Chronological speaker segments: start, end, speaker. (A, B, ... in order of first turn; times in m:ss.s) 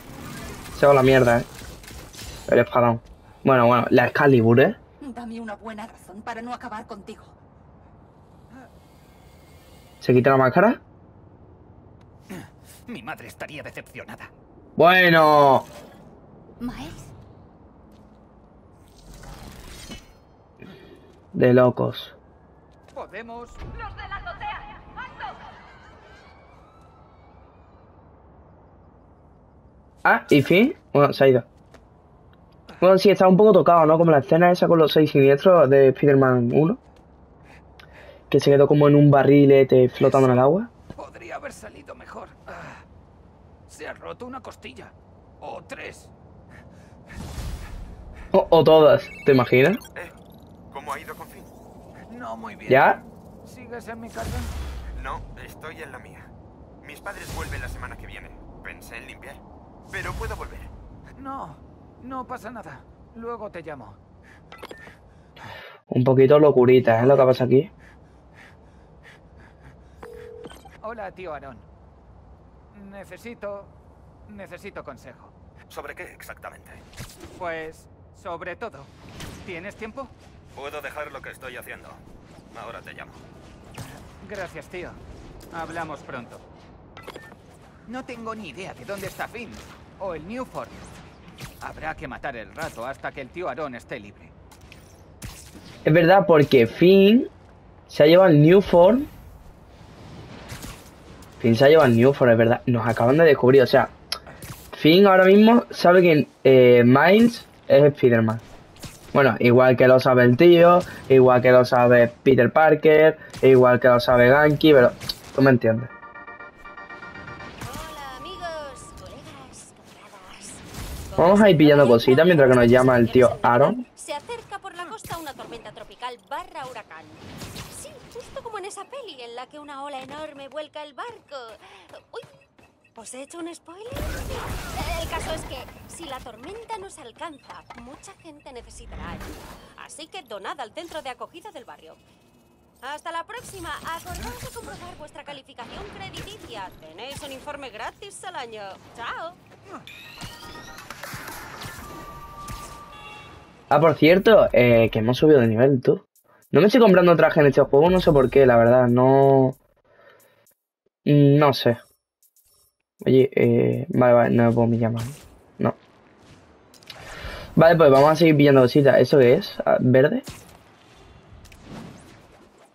0:00.7-0:01.5 A
0:02.5-0:04.8 A
0:05.0-0:07.3 B
0:10.0-0:10.8 A
0:12.3-0:14.3 C
0:14.8-0:15.6 A
0:16.6-0:17.1 B
0:21.3-0:22.2 A
0:22.9-0:23.6 C
0:30.0-0:31.4 A
0:32.8-0:36.8 A
0:38.3-0:40.7 A
0:40.9-0:42.8 C
0:43.7-0:46.1 C
0:48.3-0:49.8 A
0:50.7-0:51.5 D
0:52.1-0:54.5 C
0:52.7-0:53.0 A
0:55.0-0:56.3 D
0:56.8-1:00.7 D
1:01.2-1:04.0 C
1:05.9-1:07.7 A
1:10.8-1:11.7 C
1:12.7-1:13.7 C
1:14.3-1:15.3 C
1:15.7-1:16.8 D
1:17.4-1:20.1 C
1:20.5-1:23.2 D
1:24.2-1:25.0 C
1:25.5-1:26.4 C
1:27.9-1:30.8 C
1:31.6-1:34.3 C
1:35.8-1:37.3 A
1:37.9-1:39.1 A
1:41.4-1:43.9 A
1:44.7-1:48.4 A
1:49.1-1:55.9 A
1:57.6-2:12.3 E
2:01.2-2:03.8 A
2:12.9-2:22.0 E
2:22.8-2:29.4 E
2:33.7-2:39.6 A
2:41.0-2:41.8 A
2:43.0-2:45.8 A
2:47.6-2:50.2 A